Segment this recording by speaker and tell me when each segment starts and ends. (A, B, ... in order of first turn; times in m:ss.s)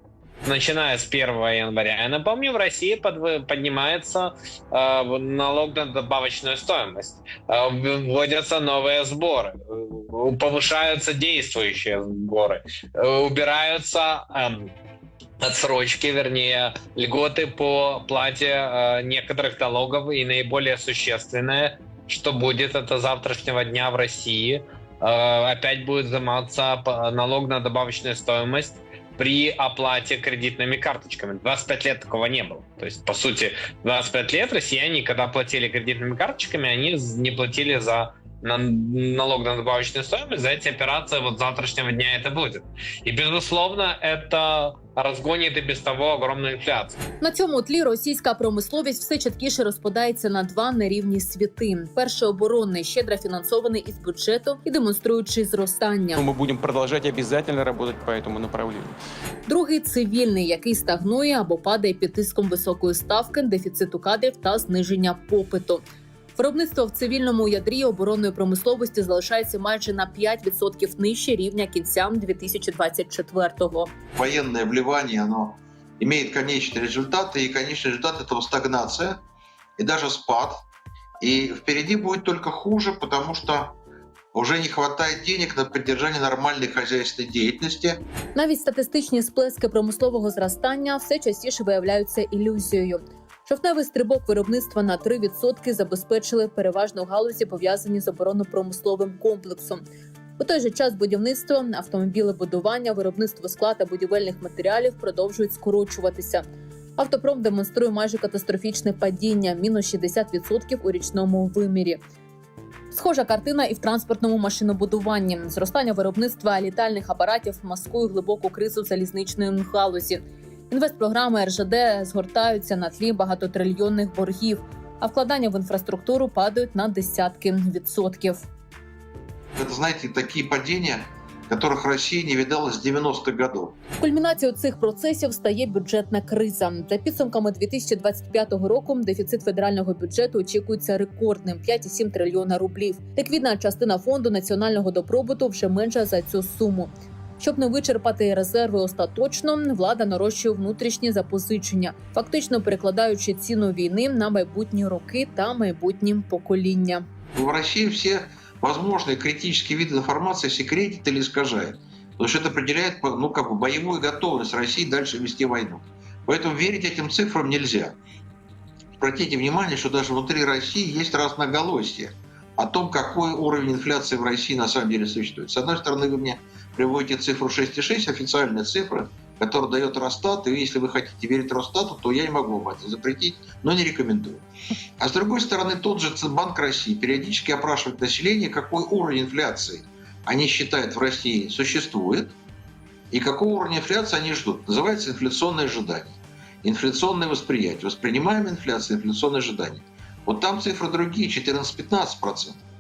0:00.4-0:14.7 A
0:15.4-0:47.0 A
0:47.2-0:56.2 B
0:56.2-0:59.0 C
0:59.5-1:05.8 B
1:06.4-1:13.9 B
1:14.2-1:19.2 D
1:19.8-1:20.6 D
1:21.2-1:23.8 D
1:24.3-1:28.0 D
1:28.4-1:39.8 B
1:40.4-1:46.4 B
1:47.0-1:52.0 B
1:52.9-2:08.4 B
2:09.6-2:13.8 D
2:14.0-2:37.1 B
2:37.3-2:48.0 D
2:49.0-3:04.4 D
3:05.0-3:12.4 D
3:13.1-3:22.6 D